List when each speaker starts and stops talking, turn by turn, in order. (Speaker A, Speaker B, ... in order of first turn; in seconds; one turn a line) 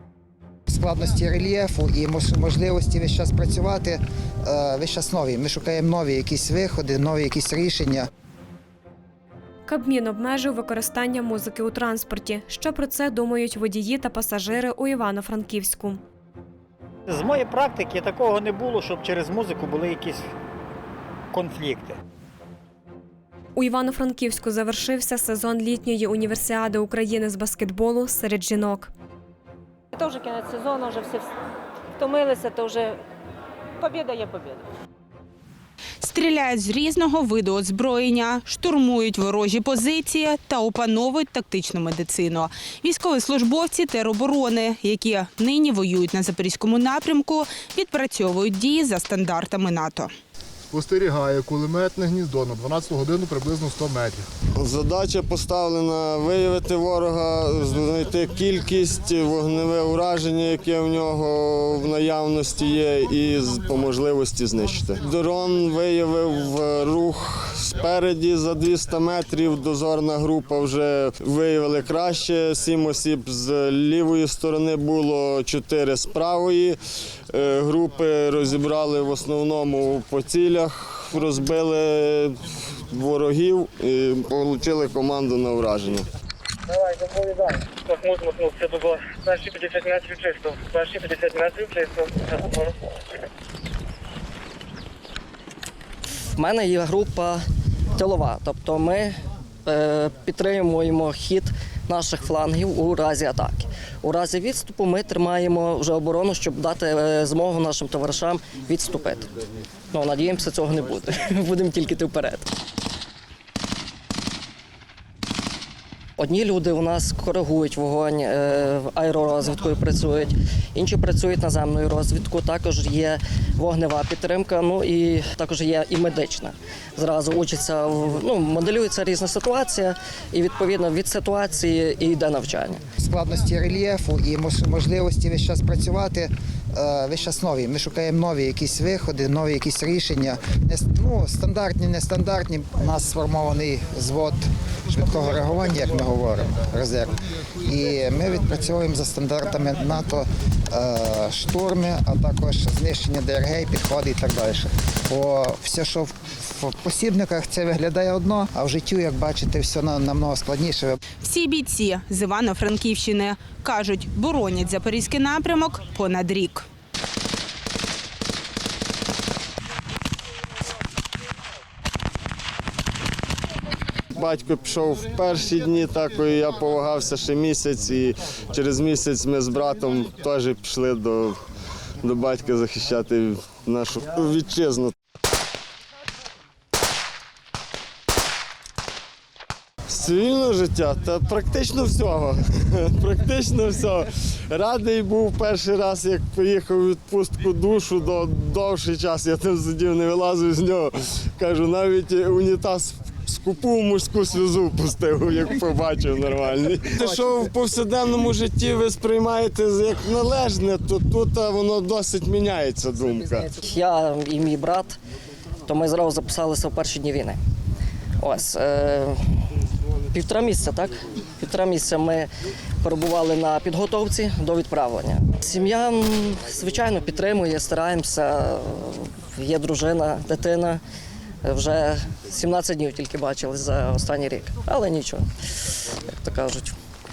Speaker A: 0.7-8.1
Speaker B: 9.7-16.0
Speaker C: 17.1-20.2
Speaker C: 21.3-22.0
Speaker B: 23.6-28.9
Speaker D: 29.9-31.2
Speaker D: 32.0-32.9
Speaker D: 33.8-34.6
Speaker E: 36.0-50.1
Speaker F: 50.7-54.2
Speaker G: 54.5-76.8
Speaker G: 77.3-86.0
Speaker H: 88.0-92.0
Speaker I: 96.3-97.4
Speaker I: 98.0-109.3
Speaker I: 109.9-112.5
Speaker I: 116.2-132.8
Speaker A: 133.0-161.0
Speaker E: 161.2-166.7
Speaker G: 174.2-181.4
Speaker G: 182.0-184.9
Speaker G: 189.9-213.6
Speaker I: 213.6-215.0
Speaker I: 215.7-217.4
Speaker I: 218.2-219.2
Speaker I: 220.1-222.3
Speaker I: 222.8-230.8
Speaker I: 231.4-235.3
Speaker I: 236.0-236.8